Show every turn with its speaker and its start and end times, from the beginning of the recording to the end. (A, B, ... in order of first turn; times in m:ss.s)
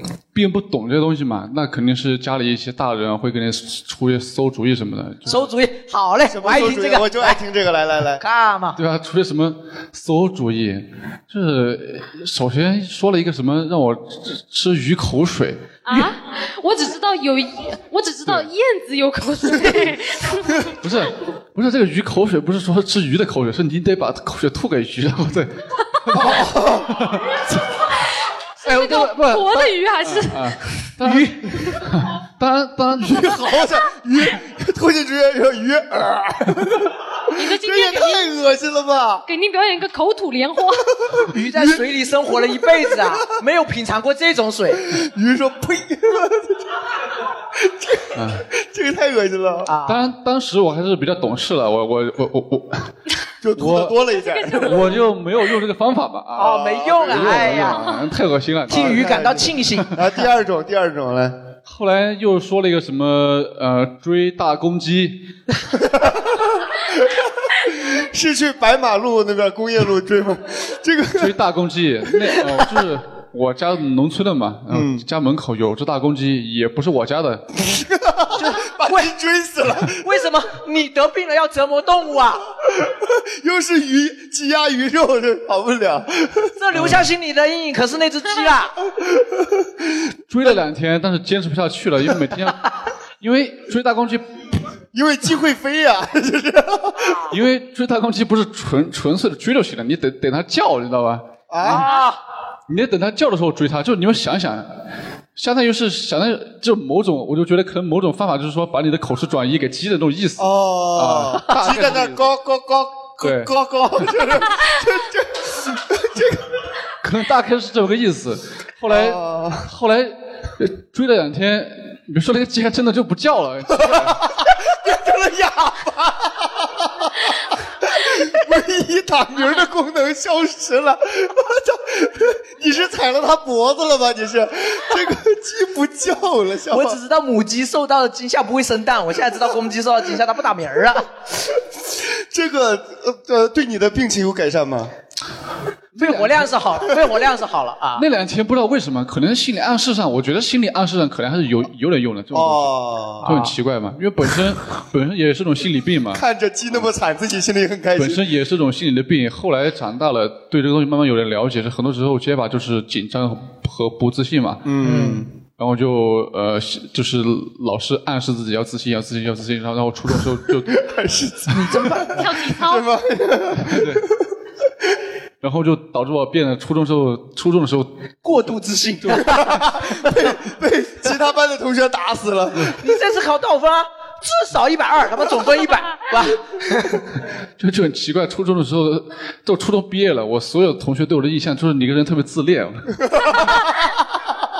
0:00.3-0:05.5 A
0:05.2-0:07.4 B
0:06.2-0:08.2 C
0:08.2-0:08.8 B
0:08.7-0:15.7 A
0:15.8-0:20.7 D
0:20.8-0:27.2 A
0:26.1-0:27.0 C
0:28.6-0:30.8 D
0:28.6-0:33.6 A
0:31.0-0:31.4 B
0:33.0-0:39.2 C
0:37.3-0:38.4 D
0:39.3-0:40.9 D
0:41.3-0:44.8 B
0:41.5-0:41.8 C
0:44.8-0:46.9 C
0:47.6-0:49.7 C
0:48.1-0:48.4 A
0:49.6-0:50.0 B
0:49.8-0:52.9 A
0:53.4-0:54.9 C
0:53.6-0:59.2 A
0:54.1-0:55.0 D
0:56.4-0:57.8 B
0:56.6-0:57.6 C
0:57.7-0:58.0 D
0:58.7-1:00.0 B
0:58.7-1:01.4 C
1:01.6-1:05.3 A
1:05.8-1:11.3 C
1:11.2-1:17.4 A
1:14.7-1:15.0 C
1:17.6-1:20.2 C
1:18.3-1:19.1 B
1:20.0-1:22.4 B
1:22.8-1:26.5 C
1:26.6-1:28.7 B
1:26.7-1:27.0 A
1:29.0-1:29.3 C
1:30.3-1:34.4 A
1:34.9-1:37.2 C
1:37.3-1:41.8 A
1:41.5-1:42.0 C
1:42.7-1:44.7 A
1:45.4-1:52.3 A
1:50.4-1:56.4 C
1:53.2-1:53.5 A
1:57.0-2:04.3 A
1:58.9-1:59.7 C
2:03.8-2:17.0 C
2:16.7-2:21.1 B
2:21.9-2:24.9 C
2:26.0-2:28.0 B
2:26.0-2:26.5 A
2:28.0-2:36.2 A
2:32.3-2:33.2 C
2:33.2-2:33.5 B
2:36.1-2:38.2 C
2:38.0-2:44.9 A
2:44.6-2:45.3 C
2:44.8-2:45.2 B
2:45.4-2:50.8 A
2:50.7-2:54.2 C
2:51.5-2:52.2 B
2:52.2-2:52.9 D
2:53.7-2:54.0 A
2:55.4-2:58.4 A
2:58.2-2:59.4 B
2:59.0-2:59.8 A
2:59.2-3:02.9 C
3:02.8-3:07.0 B
3:07.6-3:13.0 A
3:13.1-3:13.6 C